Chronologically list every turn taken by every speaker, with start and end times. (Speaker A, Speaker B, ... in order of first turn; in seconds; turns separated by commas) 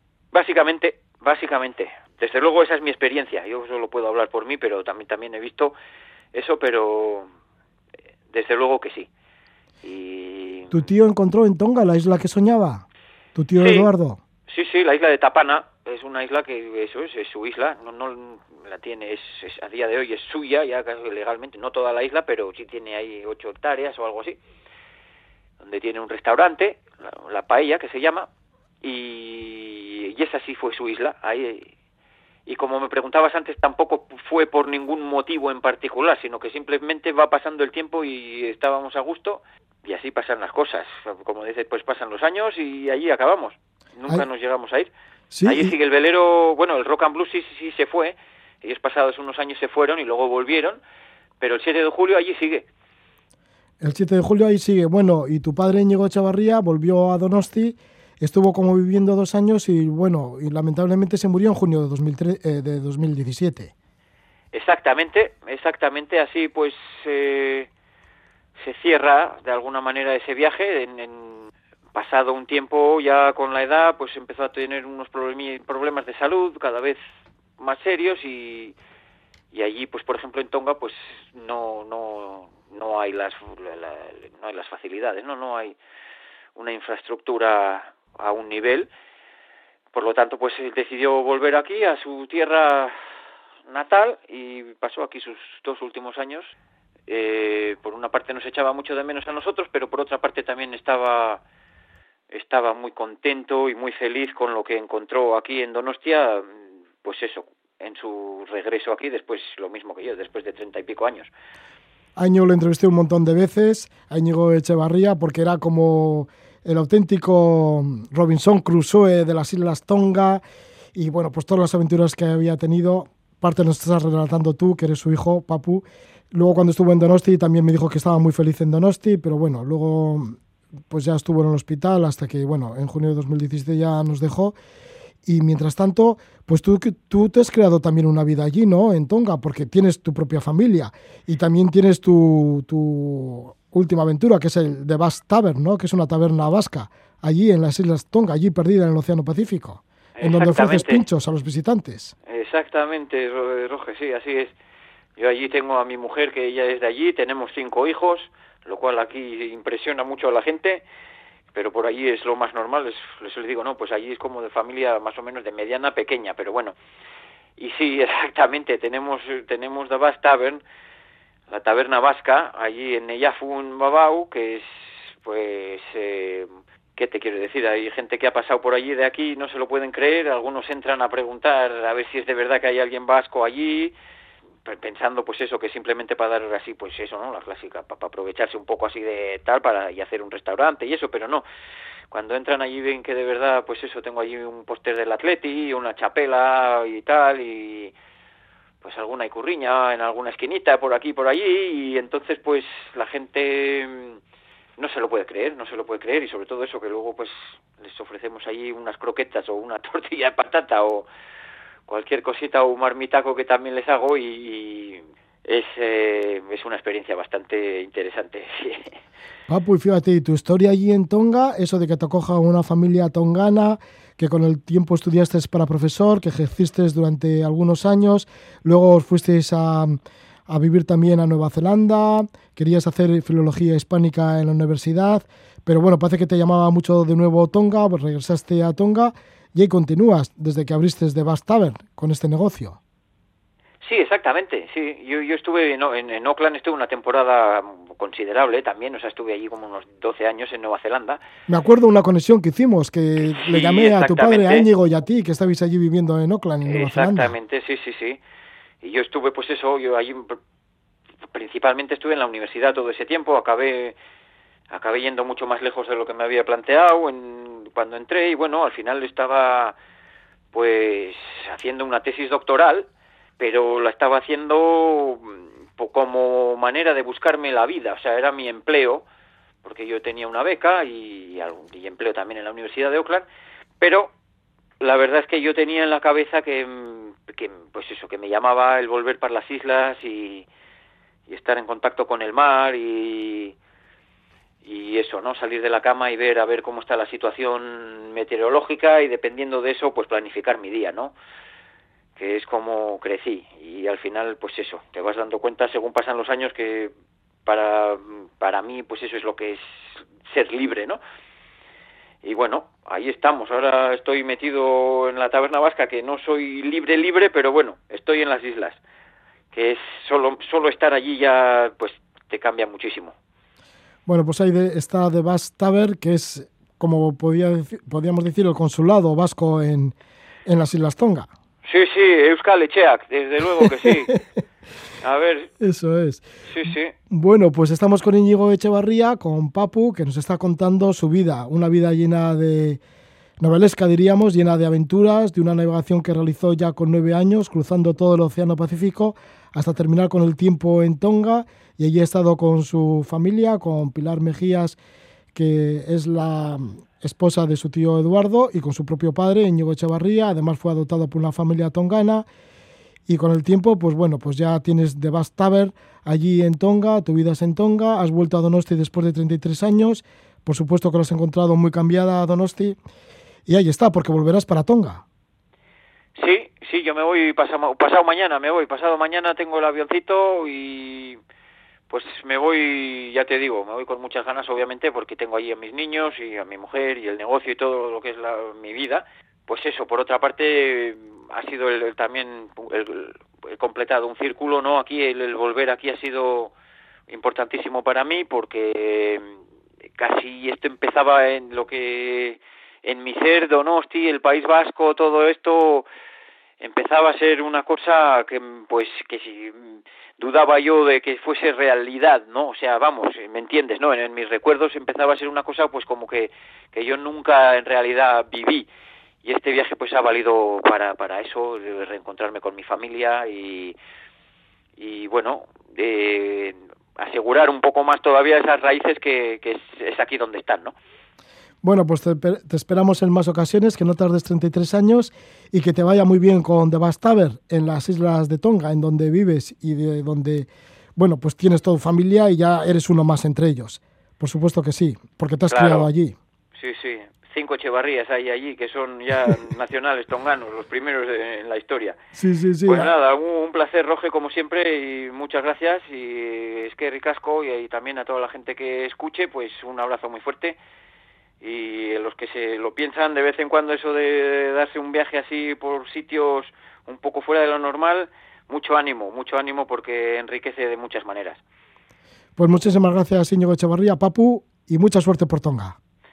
Speaker A: 0.3-5.7, Speaker A: 6.3-7.3, Speaker A: 8.3-9.1, Speaker A: 9.8-10.8, Speaker B: 10.7-14.2, Speaker A: 13.6-13.9, Speaker A: 14.5-24.4, Speaker A: 25.6-28.3, Speaker A: 28.8-31.7, Speaker A: 32.5-44.9, Speaker B: 45.3-45.7, Speaker A: 45.4-50.8, Speaker A: 51.4-52.7, Speaker B: 53.8-63.7, Speaker A: 64.5-67.7, Speaker A: 68.6-77.0, Speaker A: 77.6-78.8, Speaker A: 79.5-85.8, Speaker A: 86.5-88.9, Speaker A: 89.9-92.9, Speaker A: 93.7-96.5, Speaker A: 97.1-101.4, Speaker A: 102.3-111.3, Speaker B: 112.2-120.4, Speaker B: 120.9-130.4, Speaker B: 130.9-134.5, Speaker B: 135.2-152.1, Speaker A: 150.2-151.0, Speaker A: 152.2-154.5, Speaker A: 155.2-160.8, Speaker A: 161.5-166.8, Speaker A: 167.6-170.6, Speaker A: 171.5-183.9, Speaker A: 184.6-191.4, Speaker A: 192.1-197.9, Speaker A: 198.8-204.2, Speaker A: 204.8-211.1, Speaker A: 211.9-218.9, Speaker B: 219.5-242.8, Speaker A: 243.8-251.2, Speaker B: 251.5-257.3, Speaker A: 253.3-254.7, Speaker A: 256.7-258.2, Speaker A: 258.8-260.4, Speaker A: 261.3-264.0, Speaker A: 264.7-269.8, Speaker A: 270.5-272.9, Speaker A: 273.4-279.0, Speaker A: 279.6-283.2, Speaker A: 283.8-284.1, Speaker A: 284.8-290.4, Speaker A: 291.3-293.6, Speaker A: 294.6-301.1, Speaker A: 302.2-306.9, Speaker A: 307.4-311.0, Speaker A: 312.2-318.8, Speaker A: 319.5-323.1, Speaker B: 324.1-329.9, Speaker B: 330.4-331.3, Speaker A: 331.6-334.1, Speaker B: 333.6-333.9, Speaker A: 335.0-335.5, Speaker B: 335.6-342.8, Speaker A: 336.5-336.9, Speaker B: 343.4-354.8, Speaker B: 355.3-362.2, Speaker B: 363.1-372.8, Speaker B: 373.5-375.0, Speaker A: 376.1-381.2, Speaker A: 381.9-396.5, Speaker A: 397.1-399.4, Speaker A: 400.0-405.9, Speaker A: 406.6-418.7, Speaker A: 419.2-423.7, Speaker A: 424.8-430.7, Speaker B: 431.6-446.1, Speaker A: 445.5-445.9, Speaker A: 446.6-452.0, Speaker B: 452.1-452.9, Speaker A: 452.6-460.6, Speaker A: 461.4-471.4, Speaker B: 472.4-475.8